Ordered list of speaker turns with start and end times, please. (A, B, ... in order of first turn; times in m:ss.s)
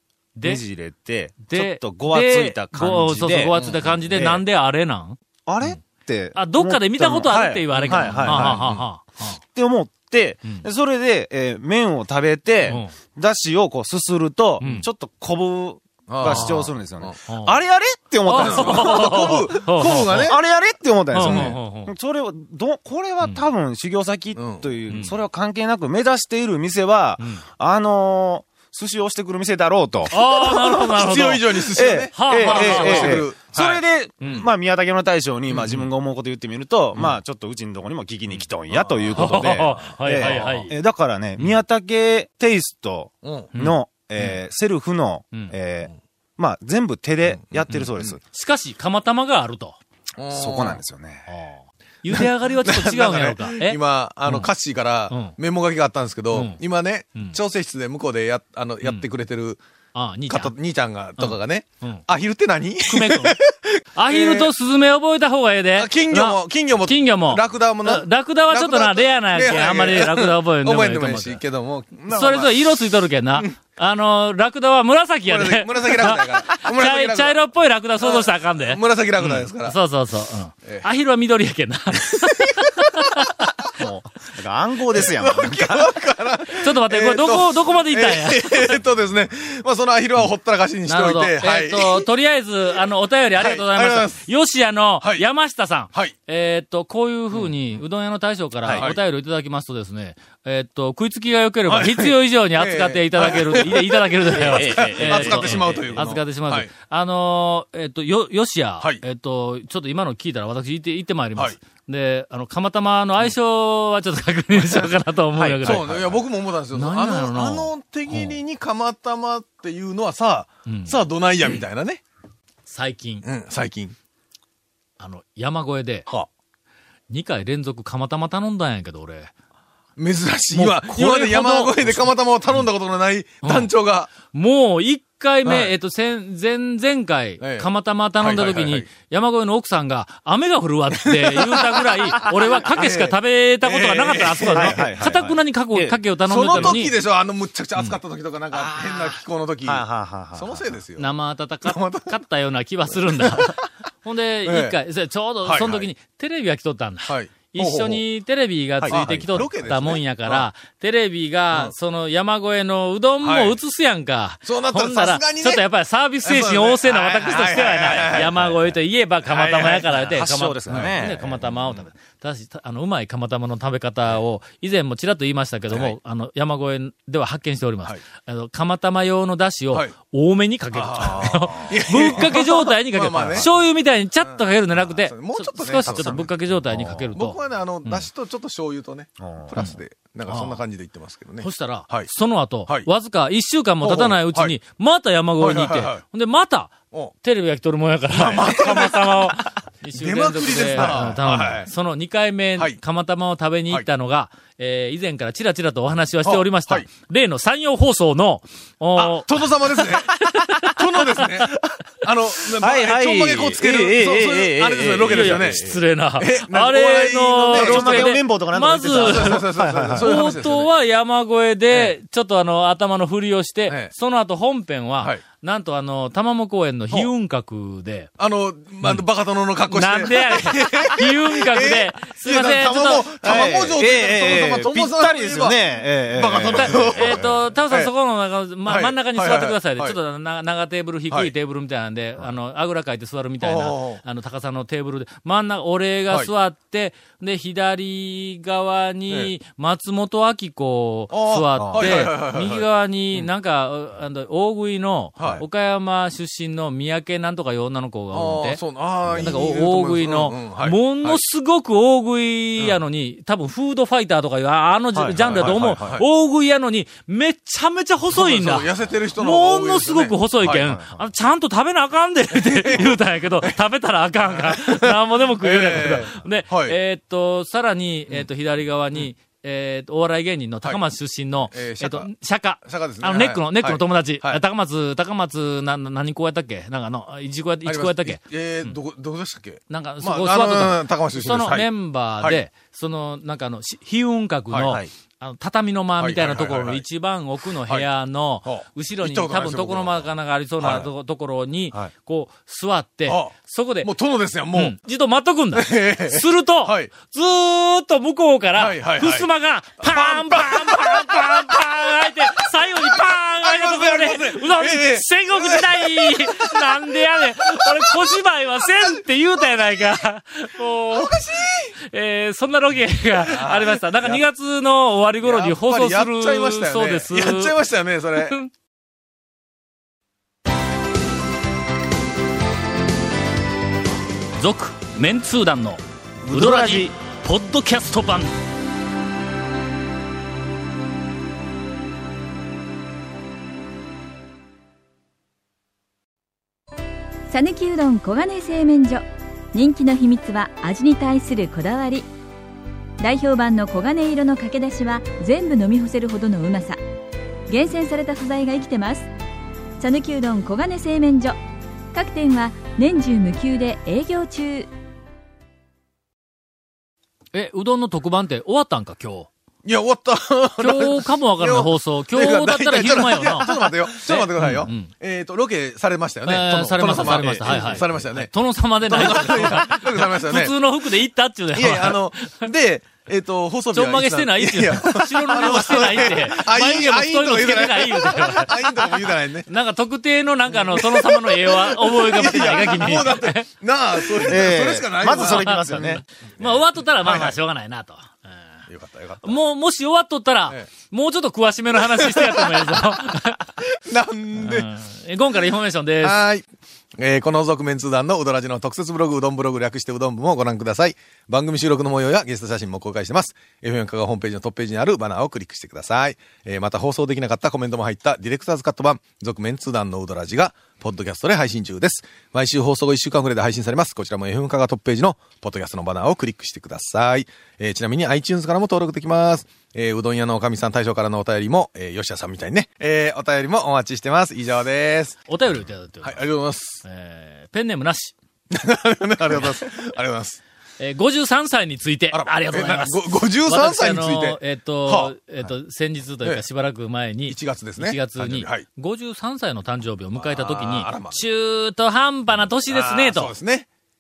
0:00.4-0:00.6 A
0:00.4-0:03.6 B
0:01.4-0:05.8 A
0:03.5-0:04.1 C
0:04.1-0:04.4 B
0:05.4-0:08.6 B
0:06.3-0:09.4 A
0:07.7-0:08.8 C
0:09.4-0:30.1 B
0:12.7-0:12.9 A
0:14.6-0:14.9 A
0:16.1-0:17.2 C
0:16.2-0:16.7 A
0:17.3-0:17.6 A
0:18.2-0:20.3 A
0:18.4-0:20.4 C
0:21.1-0:21.9 A
0:21.2-0:21.6 C
0:24.4-0:24.7 C
0:24.9-0:25.1 A
0:27.2-0:27.4 A
0:30.1-0:33.2 A
0:30.1-0:34.5 C
0:31.7-0:48.2 B
0:38.7-0:40.6 C
0:39.1-0:40.8 A
0:43.2-0:43.5 C
0:43.5-0:44.4 A
0:47.7-0:49.8 A
0:50.2-0:50.8 C
0:50.3-0:51.3 B
0:51.3-0:54.5 A
0:52.1-0:59.6 C
0:55.1-0:55.3 A
0:56.3-0:56.6 A
0:59.9-1:00.5 A
1:00.3-1:04.5 C
1:01.2-1:02.0 A
1:02.9-1:03.4 A
1:04.0-1:11.4 A
1:05.8-1:12.7 C
1:12.1-1:23.5 A
1:15.2-1:17.4 C
1:18.0-1:19.8 C
1:22.1-1:22.7 C
1:23.8-1:25.9 B
1:24.9-1:32.1 C
1:26.5-1:28.8 A
1:30.9-1:55.9 A
1:33.4-1:34.2 C
1:38.6-1:38.9 B
1:38.7-1:39.0 C
1:41.7-1:46.7 C
1:44.4-1:46.0 B
1:54.5-1:54.9 C
1:55.4-1:56.2 B
1:55.6-2:02.0 C
1:56.7-1:58.4 A
2:00.7-2:01.0 A
2:02.7-2:03.2 A
2:03.2-2:04.0 C
2:05.0-2:06.1 A
2:07.1-2:09.3 A
2:10.0-2:14.1 C
2:10.5-2:12.6 A
2:13.4-2:13.7 A
2:14.2-2:27.0 A
2:15.4-2:15.7 C
2:17.4-2:17.7 C
2:18.2-2:18.9 C
2:20.9-2:22.2 C
2:22.7-2:24.9 C
2:24.5-2:26.8 B
2:26.3-2:31.1 C
2:28.5-2:30.8 B
2:31.0-3:08.1 A
2:31.6-2:32.2 C
2:33.2-2:33.6 C
2:34.4-2:34.8 C
2:35.4-2:35.9 C
2:37.1-2:38.0 C
2:38.8-2:39.0 B
2:38.9-2:40.5 C
2:43.2-2:43.6 C
2:44.4-2:45.6 C
2:46.2-2:48.5 C
2:49.2-2:49.9 C
2:49.9-2:51.8 B
2:50.7-2:51.0 C
2:55.7-2:56.0 C
3:00.7-3:03.5 C
3:04.2-3:06.3 C
3:06.7-3:07.1 B
3:07.1-3:12.1 C
3:09.2-3:09.5 B
3:10.3-3:10.6 A
3:11.4-3:31.2 A
3:13.8-3:14.6 C
3:15.4-3:16.0 C
3:18.1-3:21.7 C
3:26.2-3:26.9 C
3:29.0-3:38.2 C
3:32.6-3:35.8 B
3:35.1-3:48.1 A
3:37.5-3:40.1 B
3:38.9-3:40.7 C
3:48.2-3:57.9 C
3:49.7-3:53.6 A
3:53.2-3:57.3 B
3:56.4-4:18.6 A
3:58.6-4:00.0 C
4:03.4-4:04.0 C
4:11.1-4:13.3 C
4:11.6-4:12.1 B
4:15.2-4:15.4 C
4:18.1-4:21.2 C
4:19.1-4:48.8 A
4:25.0-4:25.6 B
4:25.2-4:26.0 C
4:28.1-4:30.6 C
4:30.5-4:31.0 B
4:32.3-4:33.6 C
4:34.3-4:36.8 C
4:41.5-4:42.1 C
4:42.6-4:44.4 C
4:47.6-4:51.7 C
4:49.7-5:03.9 A
4:54.5-4:54.8 C
4:56.0-4:56.8 C
4:58.4-5:00.1 C
5:00.6-5:00.9 C
5:03.1-5:04.8 C
5:04.5-5:21.2 A
5:05.5-5:06.9 C
5:08.6-5:09.3 C
5:09.8-5:19.0 C
5:20.9-5:21.7 C
5:21.8-5:27.5 A
5:23.2-5:24.2 C
5:25.2-5:28.4 C
5:28.2-5:28.5 A
5:34.4-5:38.3 A
5:36.2-5:36.9 B
5:47.3-5:52.1 D
5:53.0-5:56.8 D
5:57.5-5:59.1 D
5:59.8-6:01.4 D
6:01.9-6:04.7 D
6:07.3-6:09.3 A
6:09.6-6:20.6 C
6:10.6-6:14.9 A
6:16.2-6:22.5 A
6:17.1-6:17.8 B
6:21.5-6:29.5 C
6:23.7-6:33.5 A
6:30.5-6:35.8 C
6:34.0-6:34.3 A
6:34.2-6:36.0 B
6:35.1-6:38.4 A
6:36.4-6:37.4 C
6:38.7-6:39.4 C
6:39.2-6:43.5 A
6:41.8-6:43.0 C
6:43.6-6:44.7 C
6:44.4-6:46.2 A
6:46.0-6:46.5 C
6:47.0-7:15.2 C
7:15.3-7:16.3 A
7:16.0-7:16.8 C
7:16.8-7:18.1 A
7:18.5-7:20.4 C
7:20.8-7:33.3 A
7:22.1-7:25.1 C
7:27.3-7:28.6 C
7:30.2-7:31.2 C
7:32.7-7:33.7 C